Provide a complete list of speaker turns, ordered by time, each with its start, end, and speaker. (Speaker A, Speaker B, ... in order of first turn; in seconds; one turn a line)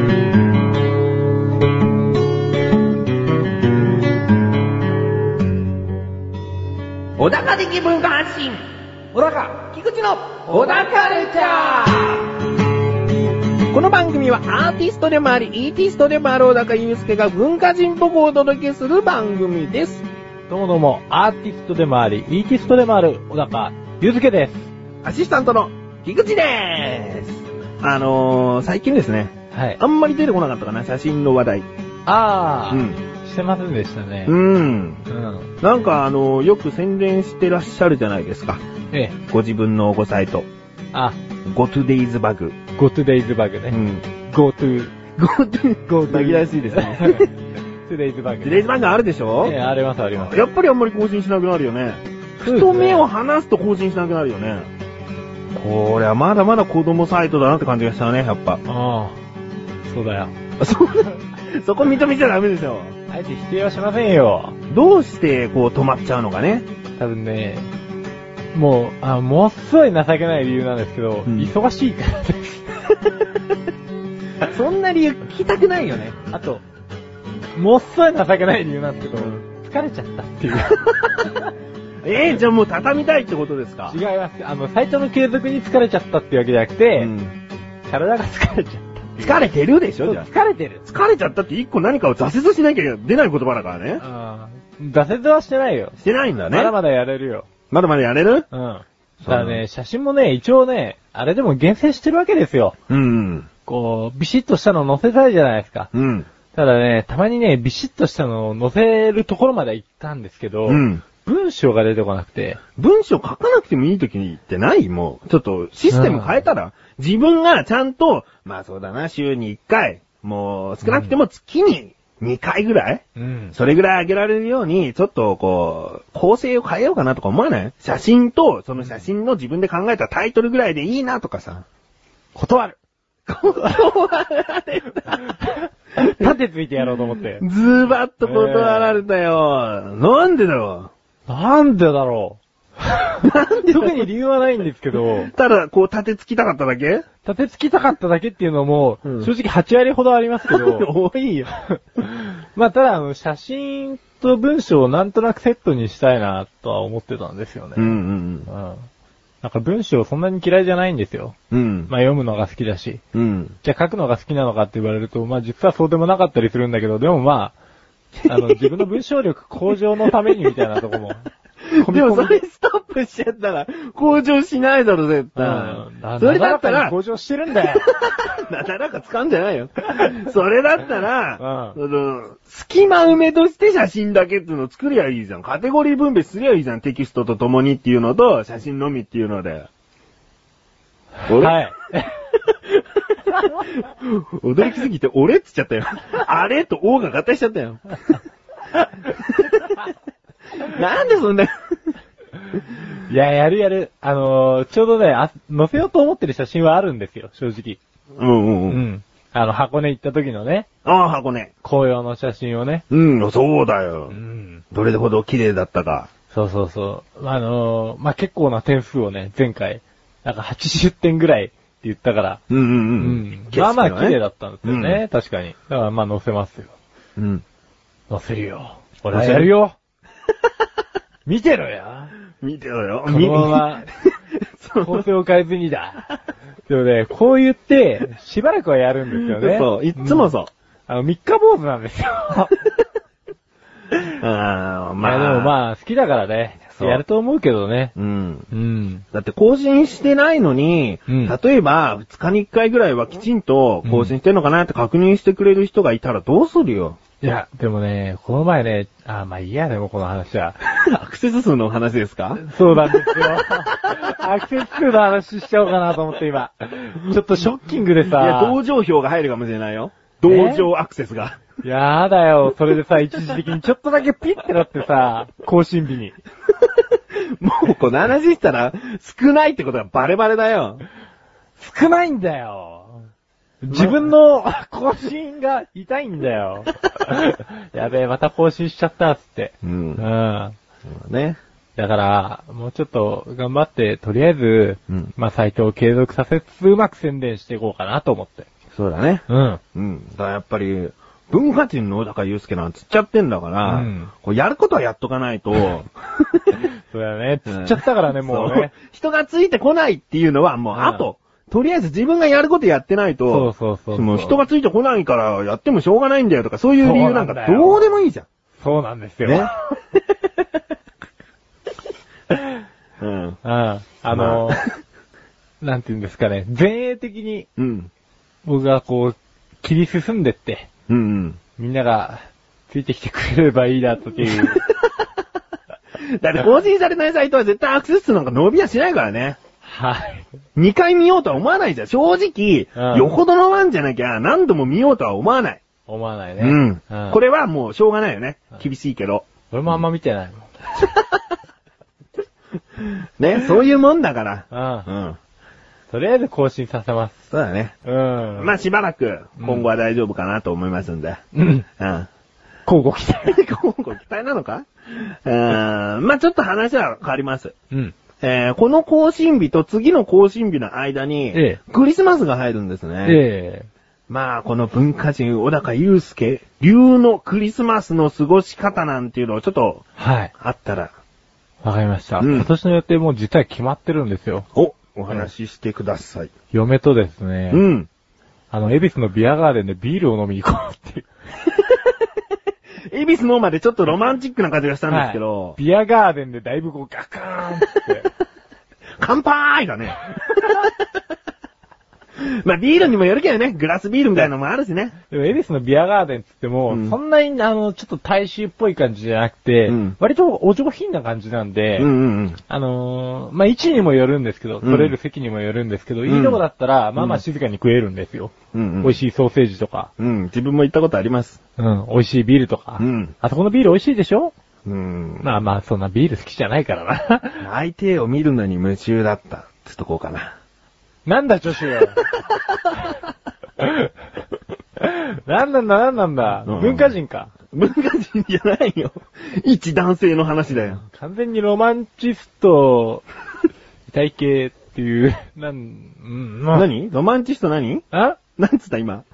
Speaker A: 7.2-8.6
Speaker B: 9.2-9.5
Speaker A: 9.5-12.3
Speaker A: 13.7-20.1
Speaker B: 20.5-24.7
Speaker A: 25.0-31.7
Speaker B: 29.5-29.8
Speaker B: 32.1-34.4
Speaker A: 32.7-33.0
Speaker A: 34.3-35.0
Speaker B: 35.1-35.5
Speaker A: 35.6-38.6
Speaker A: 39.3-40.5
Speaker A: 41.5-42.6
Speaker B: 42.8-45.0
Speaker A: 43.7-44.0
Speaker A: 45.2-47.3
Speaker B: 45.9-47.3
Speaker B: 47.9-48.7
Speaker A: 48.4-49.5
Speaker B: 49.4-50.4
Speaker A: 50.2-54.7
Speaker B: 52.4-53.0
Speaker A: 55.5-58.6
Speaker B: 58.7-59.2
Speaker B: 59.9-60.3
Speaker A: 60.6-63.0
Speaker B: 63.1-64.6
Speaker A: 64.7-66.7
Speaker B: 67.0-67.7
Speaker B: 68.5-72.8
Speaker A: 71.3-71.5
Speaker A: 74.4-76.2
Speaker B: 76.2-76.6
Speaker B: 77.5-81.4
Speaker A: 79.1-79.4
Speaker A: 82.0-84.0
Speaker B: 83.9-87.1
Speaker A: 87.0-87.3
Speaker B: 87.9-89.5
Speaker A: 89.2-90.3
Speaker B: 90.0-90.8
Speaker A: 90.8-94.0
Speaker B: 94.0-95.9
Speaker A: 96.0-96.7
Speaker B: 96.5-97.5
Speaker A: 97.7-98.5
Speaker B: 98.5-102.8
Speaker A: 99.2-99.6
Speaker A: 102.9-103.5
Speaker B: 103.7-105.9
Speaker A: 105.9-106.3
Speaker B: 106.5-112.6
Speaker A: 110.7-111.0
Speaker A: 112.8-123.0
Speaker B: 115.9-116.4
Speaker B: 120.8-121.2
Speaker B: 123.2-123.5
Speaker A: 123.5-131.7
Speaker B: 132.3-132.8
Speaker A: 133.3-135.3
Speaker B: 135.2-137.5
Speaker A: 136.0-136.3
Speaker A: 137.4-140.9
Speaker B: 138.2-139.0
Speaker B: 141.3-145.3
Speaker A: 143.2-144.1
Speaker A: 145.1-147.1
Speaker B: 147.2-150.9
Speaker A: 149.0-149.3
Speaker A: 150.5-151.5
Speaker B: 151.5-158.0
Speaker A: 157.8-158.5
Speaker B: 158.5-158.9
Speaker B: 159.4-161.4
Speaker A: 161.5-161.9
Speaker B: 161.9-163.0
Speaker A: 163.1-163.6
Speaker B: 163.6-167.6
Speaker A: 168.2-168.7
Speaker B: 168.2-172.4
Speaker A: 171.7-176.9
Speaker B: 175.4-177.9
Speaker A: 178.0-189.7
Speaker B: 181.4-181.8
Speaker A: 191.3-191.6
Speaker B: 191.3-192.1
Speaker A: 192.3-198.2
Speaker A: 198.8-199.8
Speaker A: 200.6-201.5
Speaker B: 203.1-207.8
Speaker A: 208.2-208.8
Speaker B: 208.7-210.7
Speaker A: 210.8-211.5
Speaker B: 211.6-212.8
Speaker A: 212.9-214.2
Speaker B: 214.1-214.6
Speaker A: 214.7-216.1
Speaker B: 216.3-222.4
Speaker A: 222.5-225.0
Speaker B: 223.0-226.7
Speaker A: 227.2-227.4
Speaker B: 228.1-229.8
Speaker A: 229.1-229.5
Speaker B: 231.3-232.2
Speaker A: 232.4-235.0
Speaker B: 233.1-233.9
Speaker B: 234.8-236.1
Speaker B: 236.7-240.3
Speaker A: 239.1-240.5
Speaker B: 240.9-242.6
Speaker A: 244.2-245.5
Speaker B: 245.0-247.9
Speaker A: 246.7-247.0
Speaker A: 247.9-248.5
Speaker B: 248.5-249.1
Speaker A: 249.1-257.0
Speaker B: 251.1-251.4
Speaker B: 253.8-254.1
Speaker B: 257.2-260.6
Speaker A: 260.7-264.0
Speaker B: 262.4-268.6
Speaker A: 268.1-271.4
Speaker B: 270.2-270.7
Speaker B: 271.6-276.2
Speaker A: 277.1-280.8
Speaker B: 281.6-283.0
Speaker B: 283.6-290.6
Speaker A: 283.7-284.0
Speaker A: 289.6-290.0
Speaker A: 290.9-291.4
Speaker B: 291.8-298.5
Speaker A: 298.7-306.7
Speaker B: 299.3-299.6
Speaker B: 303.6-304.1
Speaker B: 306.6-308.7
Speaker A: 307.5-318.3
Speaker B: 310.7-311.1
Speaker B: 313.3-314.4
Speaker B: 316.8-317.8
Speaker B: 318.6-319.5
Speaker A: 319.2-319.5
Speaker A: 323.0-323.4
Speaker B: 323.4-324.6
Speaker A: 324.1-324.6
Speaker B: 325.6-327.5
Speaker A: 327.6-327.9
Speaker B: 328.4-330.7
Speaker A: 330.9-331.4
Speaker B: 331.6-334.6
Speaker A: 334.2-335.1
Speaker A: 336.0-339.4
Speaker B: 339.6-340.3
Speaker A: 340.6-345.6
Speaker B: 342.8-343.2
Speaker B: 345.9-347.2
Speaker A: 346.4-349.3
Speaker B: 349.5-350.6
Speaker A: 350.8-351.2
Speaker A: 352.8-355.2
Speaker B: 354.5-354.9
Speaker B: 355.9-357.2
Speaker A: 357.3-357.8
Speaker B: 357.9-358.6
Speaker A: 358.4-362.1
Speaker B: 359.4-359.7
Speaker B: 361.4-361.7
Speaker B: 362.7-363.4
Speaker A: 363.2-367.6
Speaker A: 368.2-373.2
Speaker B: 371.3-371.6
Speaker B: 373.1-373.7
Speaker A: 374.1-380.9
Speaker B: 380.0-380.3
Speaker B: 381.6-384.5
Speaker A: 382.2-382.5
Speaker A: 384.6-386.3
Speaker B: 386.5-387.6
Speaker A: 387.5-387.9
Speaker B: 388.5-391.1
Speaker A: 391.6-391.9
Speaker A: 392.9-395.6
Speaker B: 394.9-398.1
Speaker A: 399.0-400.7
Speaker A: 402.2-405.0
Speaker B: 405.1-411.9
Speaker A: 406.7-407.0
Speaker A: 409.7-410.0
Speaker A: 411.8-412.4
Speaker B: 412.5-419.9
Speaker A: 414.6-414.9
Speaker A: 416.1-416.4
Speaker A: 417.0-417.2
Speaker A: 418.5-419.0
Speaker A: 420.0-421.4
Speaker B: 421.6-424.3
Speaker A: 422.8-423.1
Speaker A: 424.7-425.3
Speaker B: 425.2-427.4
Speaker A: 427.4-430.3
Speaker B: 431.1-432.1
Speaker B: 433.6-433.9
Speaker B: 434.8-437.3
Speaker A: 436.5-436.9
Speaker A: 437.5-440.8
Speaker B: 440.8-443.1
Speaker B: 443.9-446.7
Speaker A: 446.5-447.9
Speaker B: 447.9-448.2
Speaker A: 448.4-449.1